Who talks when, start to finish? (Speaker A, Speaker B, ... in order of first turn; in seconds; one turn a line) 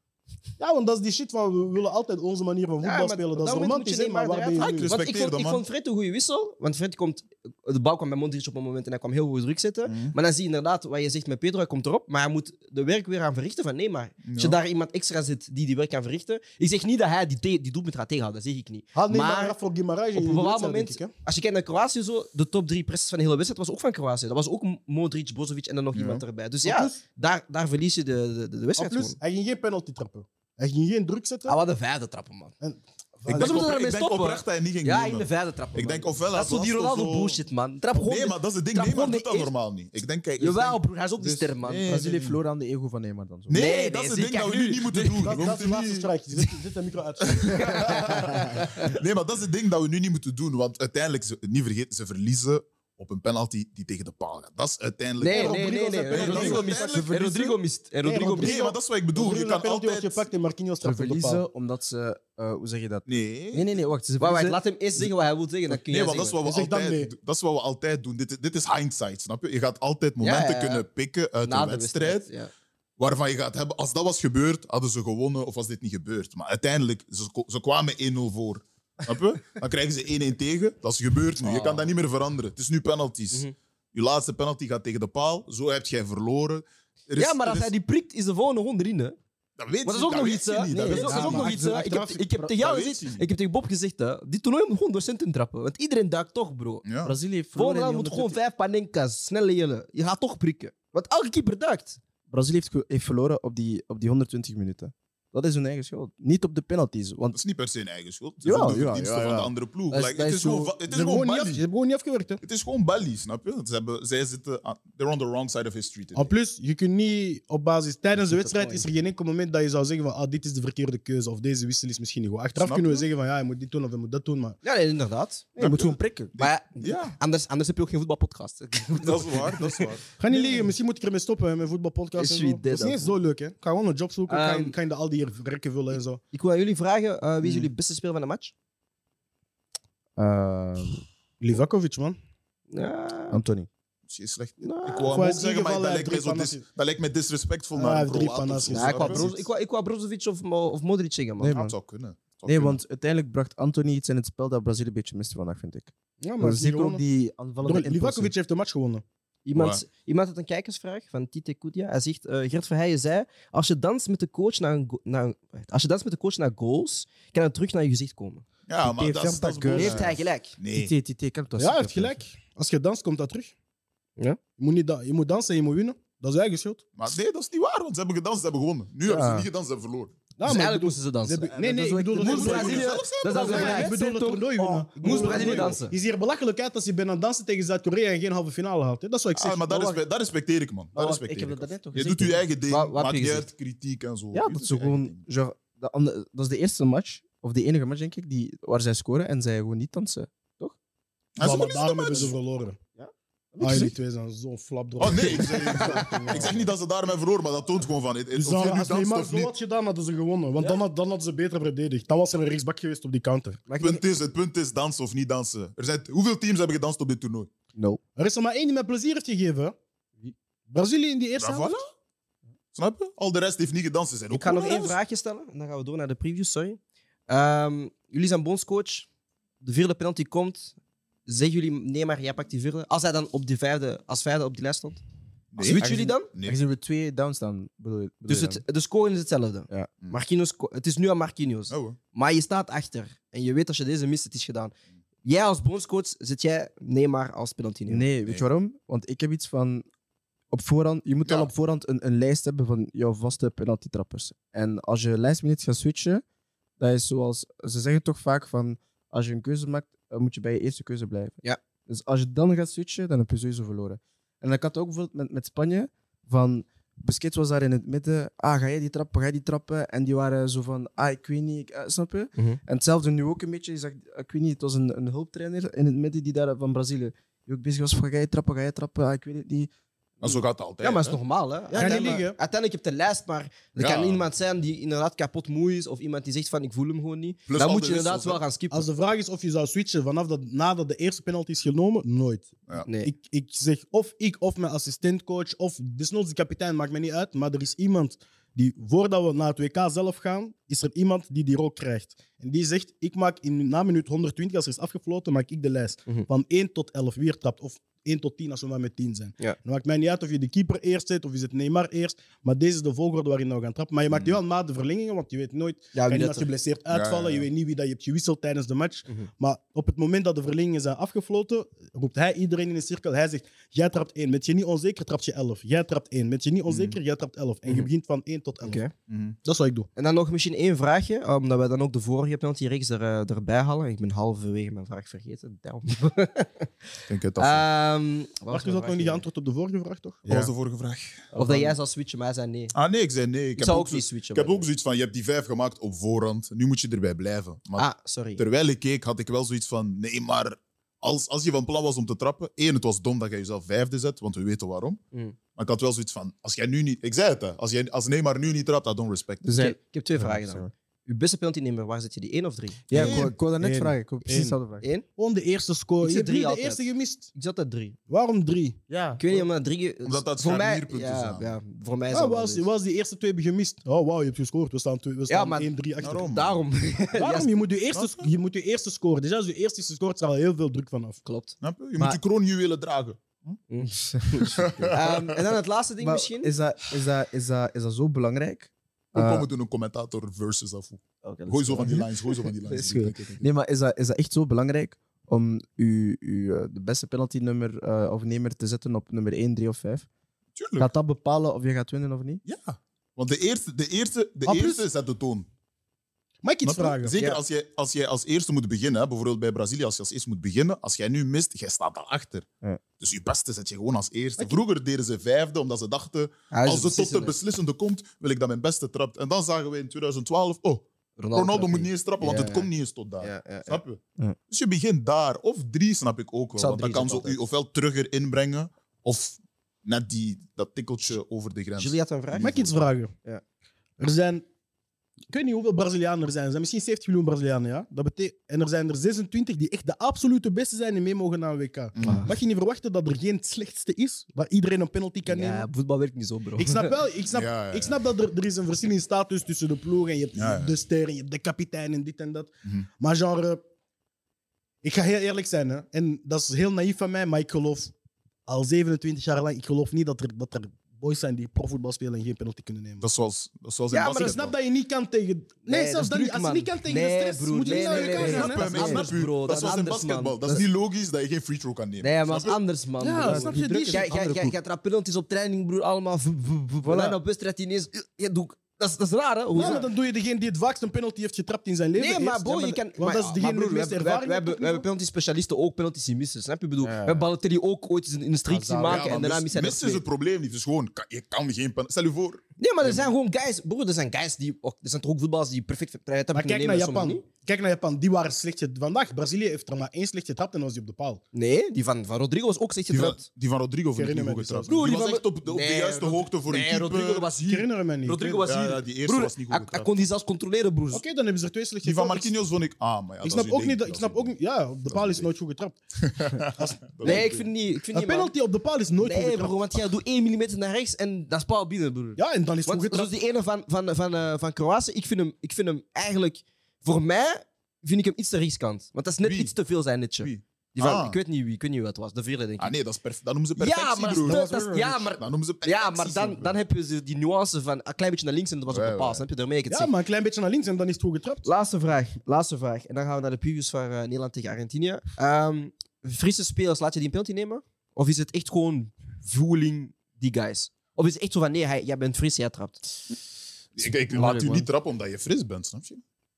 Speaker A: 0.6-4.9
Speaker B: 2.8-19.6
Speaker C: 4.6-5.6
Speaker C: 9.8-10.1
Speaker C: 14.2-14.6
Speaker A: 18.9-21.1
Speaker B: 20.1-29.2
Speaker C: 25.9-26.2
Speaker A: 26.6-27.0
Speaker A: 28.8-31.6
Speaker B: 31.5-32.5
Speaker A: 32.6-33.6
Speaker B: 33.3-39.5
Speaker C: 33.3-37.4
Speaker C: 37.9-40.8
Speaker B: 40.4-42.0
Speaker D: 41.2-43.6
Speaker C: 41.6-42.4
Speaker C: 43.5-46.1
Speaker B: 43.5-45.4
Speaker A: 45.2-48.0
Speaker C: 47.3-57.1
Speaker B: 47.6-48.9
Speaker B: 55.2-58.5
Speaker A: 55.2-57.1
Speaker D: 56.9-57.5
Speaker A: 58.0-61.4
Speaker C: 58.4-60.2
Speaker D: 60.8-64.6
Speaker C: 63.0-63.7
Speaker B: 64.2-66.4
Speaker C: 65.7-72.3
Speaker A: 66.5-67.1
Speaker B: 70.2-70.8
Speaker B: 71.4-72.5
Speaker C: 73.0-87.7
Speaker B: 81.4-81.9
Speaker B: 87.2-89.2
Speaker C: 89.6-91.7
Speaker B: 89.8-96.8
Speaker D: 90.7-91.3
Speaker A: 90.9-92.2
Speaker C: 92.5-93.2
Speaker C: 96.8-97.2
Speaker D: 97.0-98.4
Speaker B: 97.5-102.0
Speaker D: 102.3-107.4
Speaker C: 107.3-111.6
Speaker D: 108.4-109.5
Speaker B: 109.9-110.7
Speaker A: 110.9-112.4
Speaker C: 112.4-116.3
Speaker A: 116.2-124.6
Speaker D: 118.2-118.8
Speaker C: 122.6-123.0
Speaker B: 124.6-125.5
Speaker D: 125.5-126.3
Speaker C: 125.6-127.2
Speaker B: 126.4-129.8
Speaker C: 129.0-130.6
Speaker A: 130.2-136.2
Speaker B: 132.2-133.1
Speaker B: 134.3-134.7
Speaker B: 136.3-138.5
Speaker C: 137.4-137.7
Speaker D: 140.2-141.0
Speaker A: 141.4-142.2
Speaker B: 142.7-143.4
Speaker D: 143.3-143.7
Speaker C: 144.1-149.4
Speaker B: 144.6-145.2
Speaker A: 145.1-146.6
Speaker A: 147.8-149.3
Speaker B: 148.7-151.5
Speaker D: 151.4-151.7
Speaker C: 151.5-152.8
Speaker D: 152.4-158.3
Speaker A: 156.2-157.0
Speaker A: 157.6-159.0
Speaker B: 159.4-168.4
Speaker C: 159.5-159.8
Speaker C: 168.7-170.9
Speaker D: 168.8-170.2
Speaker B: 169.7-170.6
Speaker D: 170.7-172.2
Speaker A: 171.6-173.5
Speaker A: 174.6-176.8
Speaker C: 177.0-180.1
Speaker D: 179.1-179.5
Speaker A: 180.4-190.0
Speaker B: 180.4-185.9
Speaker D: 181.8-182.7
Speaker C: 182.2-183.9
Speaker D: 183.4-183.9
Speaker D: 185.1-185.7
Speaker C: 185.1-185.7
Speaker C: 189.3-195.2
Speaker B: 190.9-193.5
Speaker D: 191.3-192.1
Speaker D: 194.3-200.8
Speaker C: 201.3-202.3
Speaker A: 201.4-202.8
Speaker D: 203.0-203.9
Speaker A: 203.6-206.7
Speaker C: 205.0-209.5
Speaker A: 208.4-213.6
Speaker B: 213.7-214.0
Speaker C: 213.8-217.5
Speaker D: 217.8-218.0
Speaker A: 218.2-219.7
Speaker A: 220.7-221.7
Speaker C: 221.4-221.8
Speaker C: 222.7-224.9
Speaker B: 224.3-229.1
Speaker B: 229.6-235.0
Speaker C: 235.5-236.6
Speaker B: 235.6-236.3
Speaker D: 235.7-238.6
Speaker B: 238.3-244.7
Speaker C: 241.7-242.0
Speaker B: 245.2-248.1
Speaker D: 247.9-249.8
Speaker D: 250.5-256.2
Speaker D: 256.8-279.7
Speaker C: 280.2-281.2
Speaker B: 280.8-288.8
Speaker A: 281.7-282.4
Speaker C: 283.8-284.2
Speaker C: 287.5-288.4
Speaker A: 288.7-328.8
Speaker B: 292.8-293.1
Speaker C: 314.1-314.4
Speaker B: 315.9-316.5
Speaker C: 316.9-317.5
Speaker C: 326.7-327.0
Speaker B: 328.6-328.9
Speaker C: 329.1-329.4
Speaker A: 329.4-329.9
Speaker B: 329.9-336.7
Speaker C: 337.1-337.6
Speaker B: 337.4-339.2
Speaker A: 338.5-340.4
Speaker C: 340.2-341.7
Speaker B: 341.3-342.7
Speaker C: 342.7-355.0
Speaker B: 343.6-344.6
Speaker B: 347.7-348.4
Speaker C: 355.5-359.5
Speaker D: 359.4-360.7
Speaker B: 359.4-363.1
Speaker D: 362.9-364.8
Speaker C: 362.9-363.3
Speaker A: 362.9-364.6
Speaker A: 365.1-367.3
Speaker B: 366.0-368.0
Speaker A: 368.1-368.8
Speaker D: 368.9-369.2
Speaker B: 369.2-372.6
Speaker C: 370.0-371.6
Speaker A: 372.1-376.3
Speaker B: 375.3-377.5
Speaker C: 376.0-376.6
Speaker A: 377.2-381.2
Speaker C: 377.9-378.3
Speaker B: 381.2-381.5
Speaker C: 381.6-383.6
Speaker B: 383.7-386.5
Speaker D: 384.1-384.9
Speaker C: 384.5-385.4
Speaker D: 386.0-389.5
Speaker C: 389.1-393.5
Speaker B: 391.2-392.0
Speaker D: 391.7-392.1
Speaker D: 392.7-400.1
Speaker C: 400.6-400.9
Speaker D: 400.8-402.4
Speaker C: 402.4-405.5
Speaker A: 406.4-407.1
Speaker C: 406.6-412.5
Speaker C: 413.0-432.7
Speaker B: 416.5-417.3
Speaker B: 421.2-422.6
Speaker D: 422.3-422.6
Speaker B: 423.2-423.7
Speaker B: 426.6-427.4
Speaker B: 431.8-432.5
Speaker A: 432.4-433.1
Speaker A: 434.0-434.4
Speaker A: 435.3-445.7
Speaker C: 441.9-442.2
Speaker B: 445.3-446.9
Speaker A: 446.6-453.6
Speaker C: 447.3-447.9
Speaker C: 450.3-450.7
Speaker A: 454.8-457.9
Speaker A: 458.5-463.0
Speaker C: 463.0-464.5
Speaker B: 463.9-464.4
Speaker A: 464.2-469.0
Speaker B: 465.6-470.6
Speaker C: 467.7-472.6
Speaker B: 472.0-479.9
Speaker A: 473.0-474.5
Speaker D: 473.2-474.1
Speaker D: 476.8-477.2
Speaker A: 479.5-484.8
Speaker B: 481.9-490.0
Speaker D: 486.8-487.3
Speaker D: 488.5-489.1
Speaker C: 488.8-493.1
Speaker B: 492.6-497.2
Speaker A: 496.3-501.2
Speaker B: 501.3-503.2
Speaker C: 502.9-507.3
Speaker A: 503.9-504.7
Speaker B: 504.7-511.0
Speaker A: 507.4-508.5
Speaker C: 508.4-509.9
Speaker A: 510.9-512.3
Speaker C: 511.8-514.3
Speaker A: 513.2-515.8
Speaker C: 514.8-515.3
Speaker C: 516.1-517.4
Speaker A: 516.4-517.4
Speaker B: 517.0-518.3
Speaker A: 517.9-519.6
Speaker B: 519.0-532.7
Speaker A: 522.2-523.1
Speaker C: 529.2-529.5
Speaker C: 530.2-531.2
Speaker C: 532.6-534.5
Speaker B: 533.6-539.9
Speaker A: 534.2-535.0
Speaker C: 535.2-536.5
Speaker C: 538.7-539.2
Speaker A: 539.7-541.5
Speaker B: 541.4-553.0
Speaker C: 553.8-556.0
Speaker B: 554.1-554.7